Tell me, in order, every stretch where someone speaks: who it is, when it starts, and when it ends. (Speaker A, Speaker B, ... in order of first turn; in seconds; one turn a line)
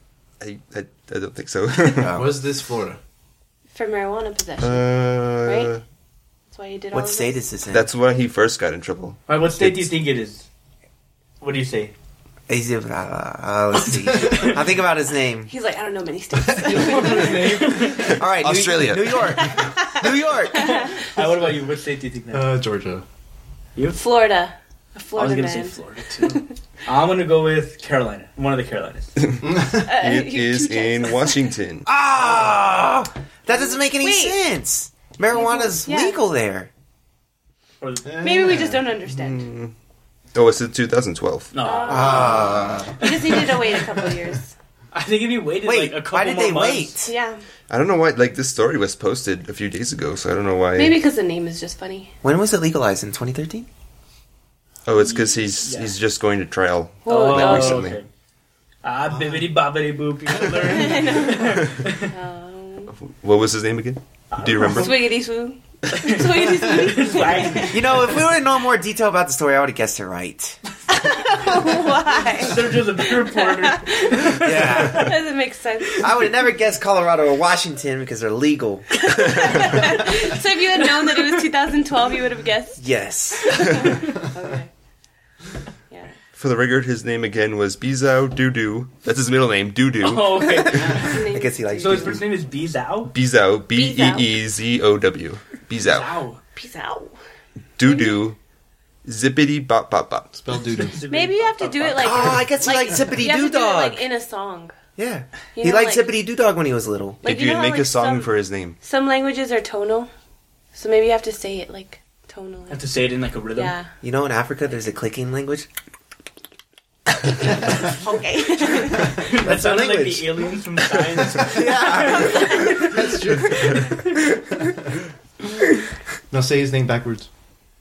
Speaker A: 0.4-2.1
Speaker B: 2.0-2.3
Speaker C: 2.1-3.0
Speaker D: 3.7-5.7
Speaker A: 4.6-5.8
Speaker D: 6.5-7.4
Speaker B: 6.9-7.9
Speaker A: 7.7-9.9
Speaker E: 9.3-10.5
Speaker E: 11.4-11.9
Speaker B: 12.5-15.5
Speaker D: 15.5-18.0
Speaker C: 16.3-18.2
Speaker E: 17.4-18.2
Speaker B: 18.0-20.9
Speaker A: 18.3-19.5
Speaker D: 19.4-21.1
Speaker E: 20.8-22.5
Speaker C: 22.3-23.1
Speaker E: 23.8-24.0
Speaker D: 23.9-26.5
Speaker E: 25.1-29.1
Speaker A: 29.2-31.9
Speaker C: 29.4-29.9
Speaker D: 29.7-31.4
Speaker B: 31.9-36.7
Speaker D: 33.5-34.4
Speaker D: 35.3-36.2
Speaker E: 37.8-38.6
Speaker C: 38.1-38.8
Speaker D: 38.2-39.5
Speaker A: 39.0-39.7
Speaker A: 40.3-41.5
Speaker E: 41.5-43.0
Speaker D: 41.6-44.5
Speaker B: 41.9-43.0
Speaker E: 44.9-46.9
Speaker B: 45.6-47.1
Speaker D: 47.0-47.4
Speaker A: 47.7-51.0
Speaker D: 50.8-52.1
Speaker B: 52.2-53.7
Speaker A: 54.9-58.0
Speaker E: 55.0-55.9
Speaker D: 57.0-57.9
Speaker E: 57.1-58.1
Speaker E: 58.8-62.1
Speaker C: 59.1-59.5
Speaker D: 60.5-62.9
Speaker A: 62.9-65.1
Speaker E: 64.3-65.0
Speaker D: 64.6-68.0
Speaker E: 65.9-68.0
Speaker B: 67.7-70.6
Speaker D: 70.9-76.3
Speaker E: 72.4-75.1
Speaker B: 74.2-75.2
Speaker B: 76.0-79.0
Speaker D: 79.0-82.9
Speaker B: 82.8-84.0
Speaker D: 83.4-84.7
Speaker A: 86.4-90.7
Speaker E: 90.0-91.2
Speaker D: 90.7-92.2
Speaker C: 90.8-91.1
Speaker B: 91.0-92.2
Speaker E: 91.8-93.1
Speaker A: 93.1-96.2
Speaker D: 93.7-94.3
Speaker E: 95.8-96.4
Speaker D: 96.6-97.2
Speaker A: 97.8-98.4
Speaker D: 97.8-98.2
Speaker A: 99.0-100.3
Speaker C: 100.3-101.0
Speaker E: 100.7-102.4
Speaker D: 101.1-104.8
Speaker B: 102.0-104.1
Speaker B: 105.0-107.2
Speaker D: 105.6-106.1
Speaker A: 107.2-108.8
Speaker D: 107.2-110.1
Speaker D: 110.8-112.9
Speaker E: 112.7-113.8
Speaker D: 113.5-113.9
Speaker B: 114.0-115.7
Speaker D: 117.9-119.3
Speaker E: 119.1-122.1
Speaker B: 119.3-120.5
Speaker B: 121.3-122.7
Speaker D: 121.6-124.0
Speaker C: 122.7-124.0
Speaker C: 126.3-127.3